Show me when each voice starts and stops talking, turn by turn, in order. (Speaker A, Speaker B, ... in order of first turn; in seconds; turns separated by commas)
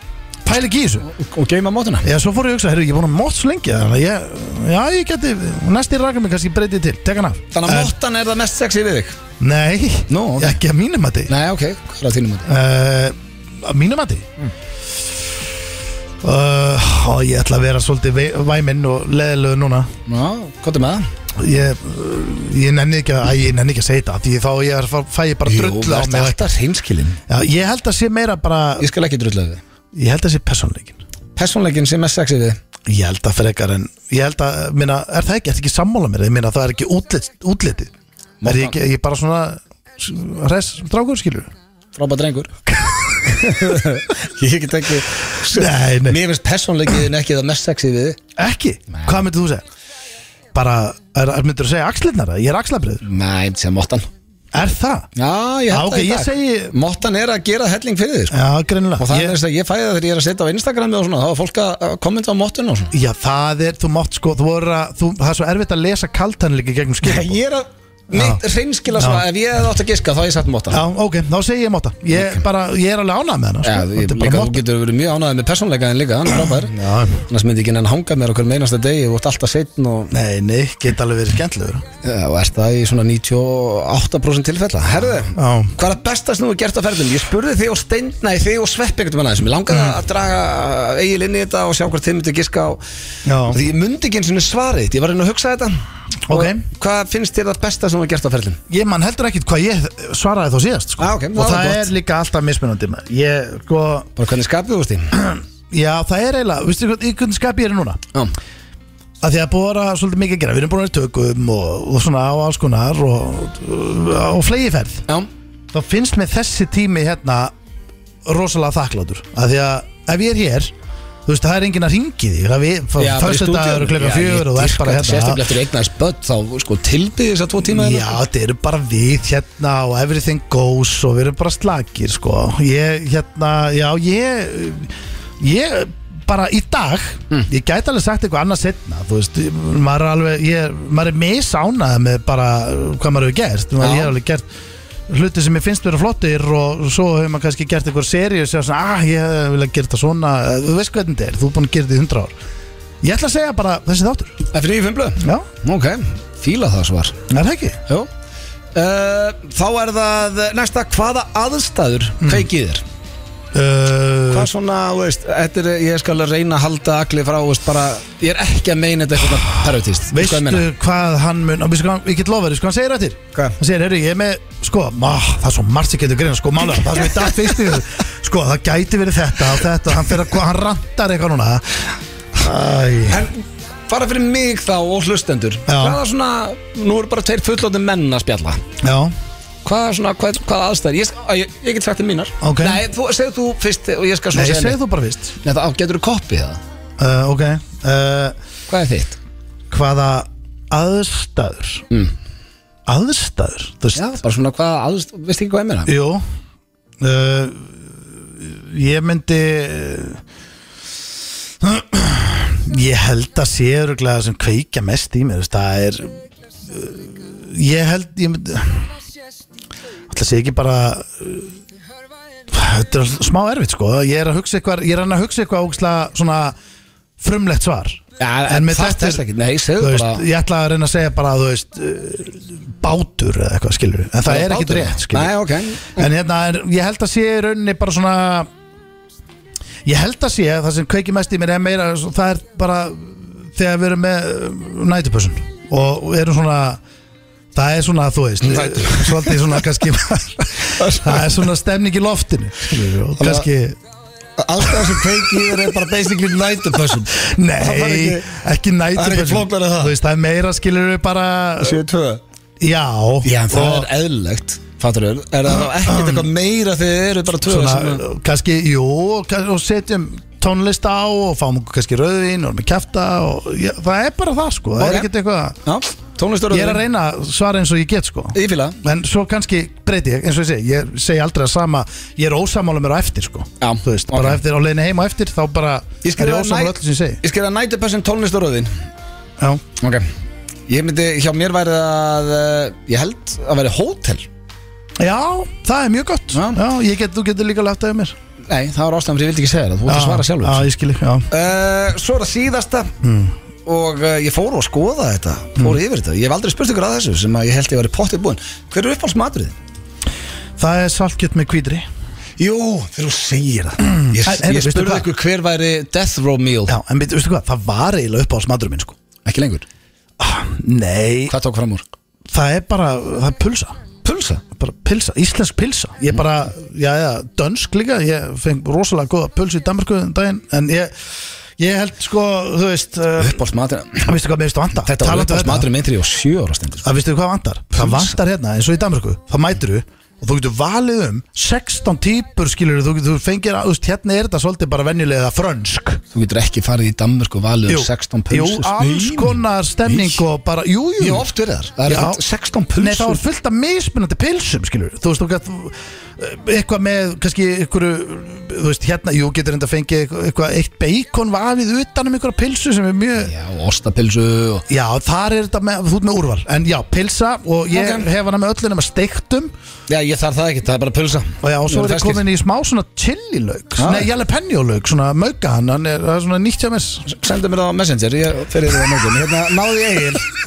Speaker A: 0.4-1.1, Speaker B: 1.1-2.1, Speaker A: 2.0-7.9, Speaker B: 7.5-9.2, Speaker A: 9.4-11.3, Speaker B: 10.1-10.6, Speaker B: 11.3-12.5, Speaker A: 12.5-14.3, Speaker A: 16.2-19.9, Speaker B: 20.1-21.1, Speaker A: 21.4-26.5, Speaker B: 25.5-27.2, Speaker A: 27.3-28.9, Speaker B: 28.8-29.6, Speaker A: 29.9-31.0, Speaker B: 31.4-32.6, Speaker A: 32.9-37.9, Speaker B: 38.4-38.8, Speaker A: 38.4-41.5, Speaker B: 42.0-42.5, Speaker A: 42.7-43.6, Speaker B: 43.3-48.2, Speaker A: 45.5-46.2, Speaker A: 48.4-49.6, Speaker B: 48.9-49.2, Speaker A: 50.5-53.0, Speaker B: 53.0-54.1, Speaker A: 54.5-55.1, Speaker B: 55.2-58.4, Speaker A: 55.7-56.7, Speaker A: 58.3-59.4, Speaker B: 59.0-62.9, Speaker A: 62.9-67.4, Speaker B: 67.0-70.8, Speaker A: 68.1-68.4, Speaker A: 69.0-69.2, Speaker A: 70.7-74.6, Speaker B: 73.6-76.7, Speaker A: 76.4-77.2, Speaker B: 77.3-80.1, Speaker A: 80.1-81.8, Speaker B: 82.0-92.8, Speaker A: 85.3-85.7, Speaker A: 89.7-90.0, Speaker A: 93.2-93.6, Speaker B: 93.5-95.7, Speaker A: 96.3-96.6, Speaker B: 96.3-98.6, Speaker A: 98.7-104.1, Speaker B: 101.0-101.9, Speaker B: 104.2-105.1, Speaker A: 105.2-108.0, Speaker A: 109.2-115.1, Speaker A: 115.7-117.5, Speaker A: 118.2-120.7, Speaker A: 121.3-125.4, Speaker B: 123.0-128.2, Speaker A: 127.7-144.5, Speaker B: 143.8-144.1, Speaker A: 145.1-152.3, Speaker A: 153.0-154.4, Speaker B: 154.5-157.2, Speaker A: 155.2-155.5, Speaker A: 157.3-157.8, Speaker B: 158.8-162.8, Speaker A: 163.5-164.5, Speaker B: 164.3-170.6, Speaker A: 170.1-183.3, Speaker B: 183.1-183.4, Speaker B: 183.9-188.6, Speaker A: 185.7-186.0, Speaker A: 188.8-189.1, Speaker B: 189.7-194.8, Speaker A: 192.4-192.8, Speaker A: 194.3-195.4, Speaker B: 195.4-196.6, Speaker A: 197.0-198.4, Speaker B: 198.7-199.2, Speaker A: 199.7-201.9, Speaker A: 202.9-204.1, Speaker B: 204.0-205.9, Speaker A: 205.9-206.2, Speaker A: 207.0-207.8, Speaker A: 208.4-210.2, Speaker A: 211.6-216.2, Speaker A: 216.7-218.9, Speaker A: 220.1-221.5, Speaker A: 222.5-226.6, Speaker A: 227.2-229.2, Speaker B: 228.2-230.2, Speaker A: 229.8-235.3, Speaker B: 234.3-236.1, Speaker A: 236.0-238.5, Speaker A: 239.8-246.8, Speaker A: 247.5-253.8, Speaker B: 248.4-249.6, Speaker B: 250.7-251.4, Speaker B: 253.2-253.5, Speaker B: 254.4-258.3, Speaker A: 254.7-255.5, Speaker A: 257.1-261.8, Speaker B: 258.9-259.9, Speaker B: 261.6-262.2, Speaker A: 262.6-263.9, Speaker B: 263.2-268.0, Speaker A: 265.6-266.3, Speaker A: 267.4-275.6, Speaker B: 274.8-275.1, Speaker B: 275.7-276.8, Speaker A: 276.5-287.2, Speaker B: 278.4-278.8, Speaker B: 283.6-284.4, Speaker B: 286.0-288.7, Speaker B: 289.8-290.1, Speaker B: 290.7-294.3, Speaker A: 295.0-298.1, Speaker B: 296.3-296.6, Speaker B: 298.5-300.7, Speaker A: 299.9-301.3, Speaker B: 301.3-302.9, Speaker A: 303.0-303.4, Speaker B: 303.7-309.6, Speaker A: 310.6-311.9, Speaker B: 312.4-316.7, Speaker A: 314.0-315.1, Speaker A: 316.7-319.0, Speaker B: 319.2-319.6, Speaker A: 320.2-321.3, Speaker B: 321.3-321.8, Speaker A: 322.3-323.8, Speaker B: 324.0-324.4, Speaker A: 324.6-330.9, Speaker A: 331.6-333.4, Speaker B: 333.2-334.1, Speaker A: 334.0-335.7, Speaker B: 334.9-336.9, Speaker A: 336.8-346.0, Speaker B: 337.8-338.1, Speaker B: 346.1-350.2, Speaker A: 347.7-351.2, Speaker B: 351.0-353.2, Speaker A: 351.9-352.2, Speaker A: 352.8-363.3, Speaker B: 363.2-364.6, Speaker A: 364.7-369.5, Speaker B: 367.7-368.1, Speaker B: 369.9-372.2, Speaker A: 371.4-377.1, Speaker B: 373.8-374.1, Speaker B: 377.1-380.3